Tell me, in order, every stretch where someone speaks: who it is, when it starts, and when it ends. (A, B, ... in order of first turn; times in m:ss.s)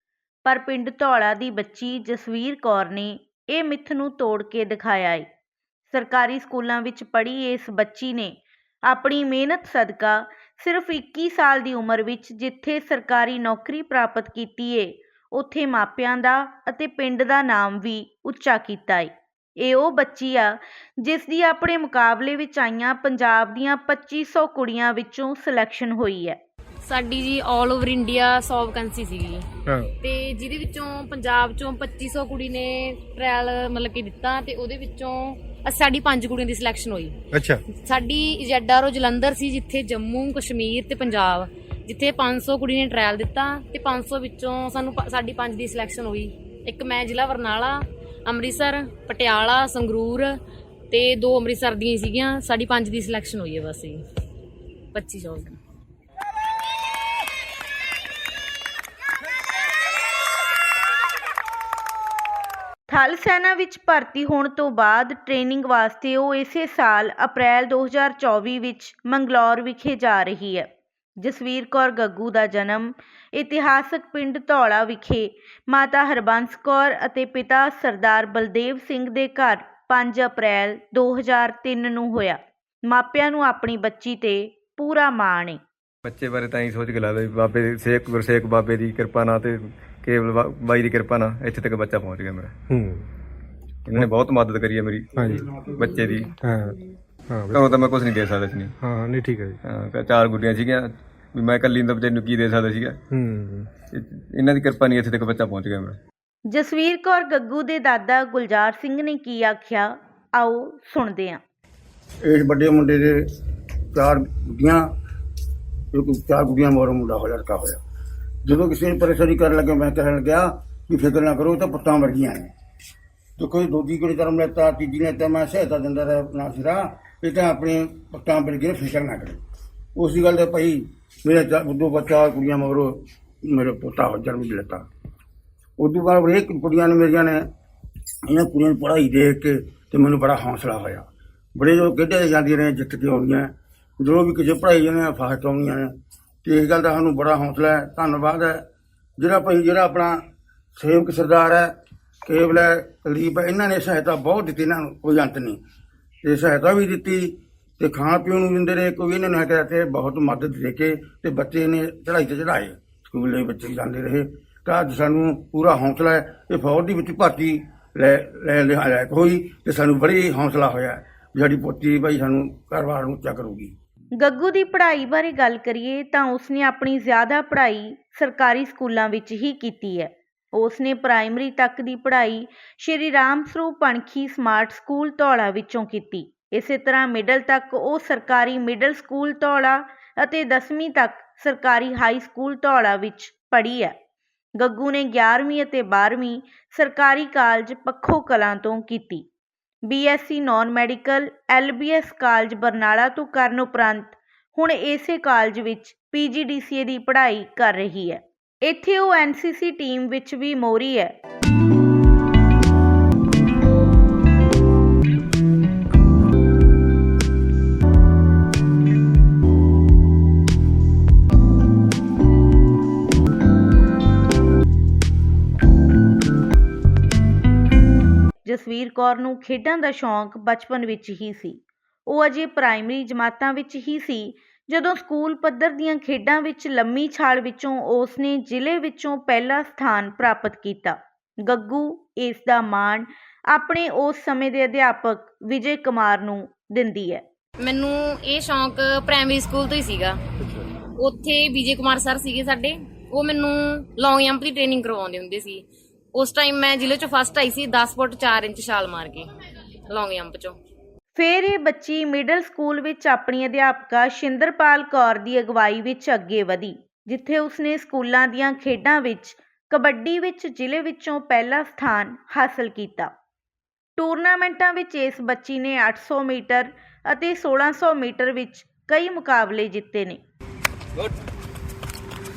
0:00.4-0:05.3 A
0:05.9-0:08.3 A
0:08.9-0:26.4 A
0:26.8-0:29.5 B
0:29.6-0:29.9 C
0:30.0-0:37.2 B
0:37.3-0:37.6 C
0:37.8-0:50.4 B
0:50.9-0:54.0 B
0:54.9-0:55.6 B
1:02.9-1:10.7 A
1:11.2-1:25.6 A
1:26.0-1:32.5 D
1:32.7-1:33.1 C
1:33.9-1:36.3 D
1:35.2-1:35.4 C
1:36.4-1:36.8 C
1:37.3-1:37.7 C
1:37.5-1:38.7 D
1:38.8-1:39.6 C
1:39.6-1:43.0 D
1:43.1-1:43.7 C
1:43.8-1:46.0 D
1:46.5-1:51.4 A
1:52.2-1:53.3 E
1:53.9-1:54.8 E
1:55.9-1:57.8 E
1:58.4-2:02.5 E
2:03.4-2:09.4 E
2:10.0-2:14.9 E
2:15.8-2:17.4 E
2:18.3-2:25.9 E
2:26.4-2:28.6 E
2:29.2-2:30.2 E
2:30.8-2:31.7 E
2:32.2-2:35.6 E
2:36.2-2:53.7 E
2:54.2-3:14.0 A
3:14.6-3:19.2 A
3:19.9-3:31.1 A
3:48.4-4:07.2 A
4:07.6-4:10.2 B
4:11.0-4:19.3 B
4:19.9-4:20.6 B
4:21.1-4:33.1 A
4:34.0-4:40.2 A